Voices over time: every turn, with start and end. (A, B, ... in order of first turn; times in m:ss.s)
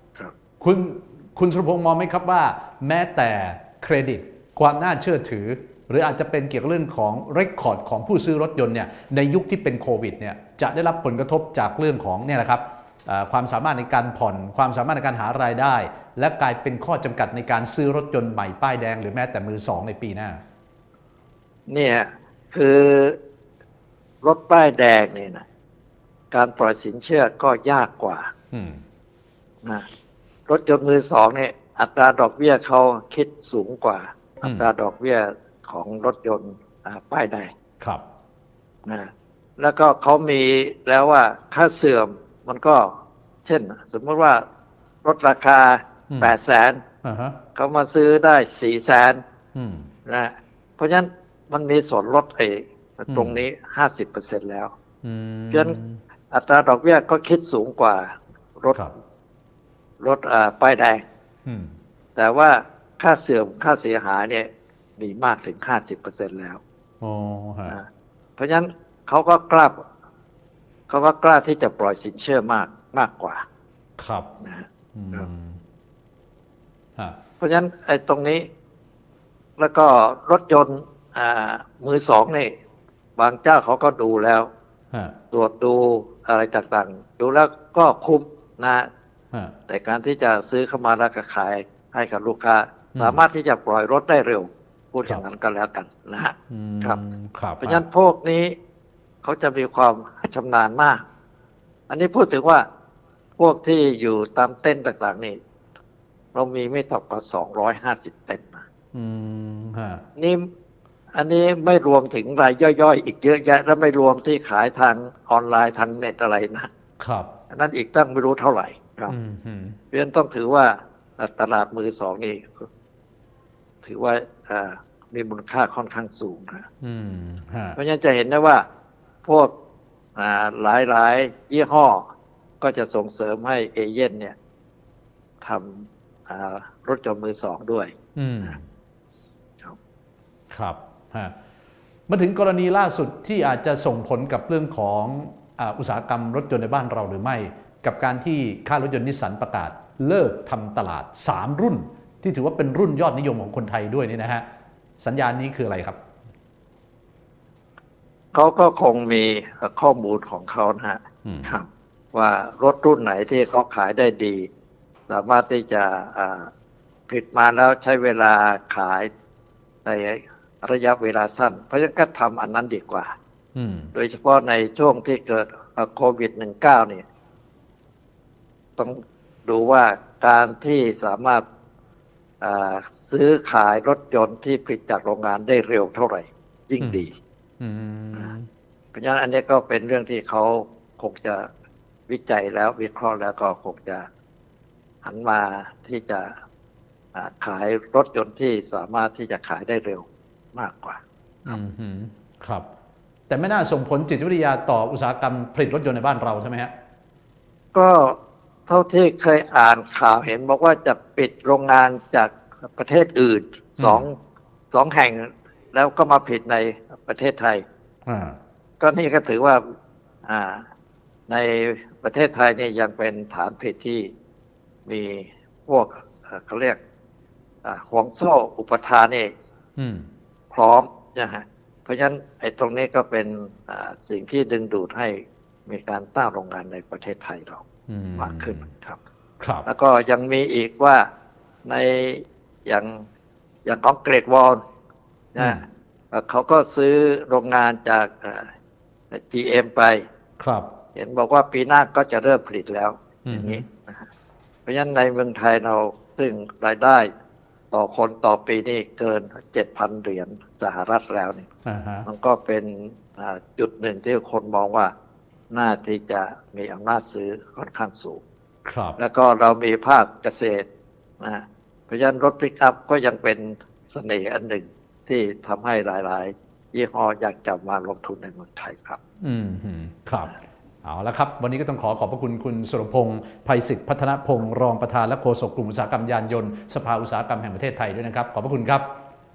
0:00.6-0:20.4 A
0:21.7-0:23.2 B
0:24.2-0:25.4 B
0:26.3-0:28.3 B
0:28.5-0:28.8 A
0:30.5-0:37.5 B
0:38.8-0:42.9 B
0:43.4-0:44.4 B
0:45.0-0:46.8 B
0:47.0-0:47.4 A
0:47.5-0:49.2 B
0:49.5-0:49.9 A
0:50.0-0:54.7 B
0:53.1-0:53.4 A
0:55.0-0:56.0 A
0:55.5-0:55.8 B
0:56.3-0:58.8 B
1:00.0-1:01.0 B
1:01.4-1:01.7 A
1:02.2-1:06.6 B
1:07.0-1:07.8 A
1:08.4-1:09.8 B
1:10.9-1:13.4 B
1:14.0-1:14.3 A
1:14.4-1:15.3 B
1:14.9-1:15.6 A
1:17.4-1:18.5 B
1:19.6-1:22.5 B
1:23.2-1:24.5 B
1:25.3-1:28.9 B
1:29.7-1:37.0 B
1:32.9-1:33.2 A
1:36.5-1:37.8 A
1:37.6-1:38.5 B
1:39.2-1:41.0 B
1:41.9-1:42.6 B
1:43.4-1:45.4 B
1:46.3-1:48.6 B
1:48.9-1:50.0 A
1:50.2-1:50.4 B
1:51.1-1:56.7 B
1:57.0-1:57.3 A
1:57.5-1:59.1 B
1:59.1-1:59.8 A
1:59.9-2:02.7 B
2:03.8-2:06.7 B
2:06.8-2:07.8 A
2:07.8-2:08.6 B
2:09.2-2:09.5 B
2:10.2-2:12.0 B
2:12.6-2:14.3 B
2:15.4-2:17.9 B
2:18.2-2:18.6 A
2:20.5-2:21.3 A
2:22.1-2:34.4 A
2:35.0-2:36.0 A
2:38.3-2:44.5 B
2:41.2-2:41.5 A
2:45.1-2:46.5 B
2:47.1-2:49.1 B
2:49.8-2:53.1 B
2:53.5-2:53.9 A
2:53.9-2:57.0 B
2:58.8-3:01.4 B
3:02.4-3:07.1 B
3:07.6-3:08.4 A
3:08.9-3:11.5 B
3:12.1-3:14.1 B
3:15.0-3:16.3 B
3:17.1-3:21.6 B
3:21.4-3:22.7 A
3:23.3-3:26.7 A
3:27.7-3:34.1 B
3:33.8-3:34.0 A
3:34.7-3:37.6 B
3:38.0-3:38.4 A
3:38.8-3:39.6 B
3:40.2-3:40.6 B
3:41.3-3:44.1 B
3:44.8-3:46.8 B
3:47.6-3:49.3 B
3:49.8-3:50.1 A
3:50.5-3:57.6 B
3:57.9-3:58.7 A
3:58.2-3:59.0 B
3:59.4-3:59.7 A
3:59.6-4:01.0 B
4:01.6-4:03.0 B
4:03.6-4:04.6 B
4:05.3-4:08.5 B
4:05.4-4:05.6 A
4:09.1-4:10.0 B
4:10.4-4:10.7 A
4:10.9-4:14.1 B
4:13.2-4:13.6 A
4:14.6-4:17.1 B
4:17.7-4:21.5 B
4:21.6-4:22.1 A
4:22.0-4:24.9 B
4:25.5-4:28.2 B
4:28.6-4:29.0 A
4:29.0-4:30.6 B
4:31.2-4:39.0 B
4:39.2-4:48.9 A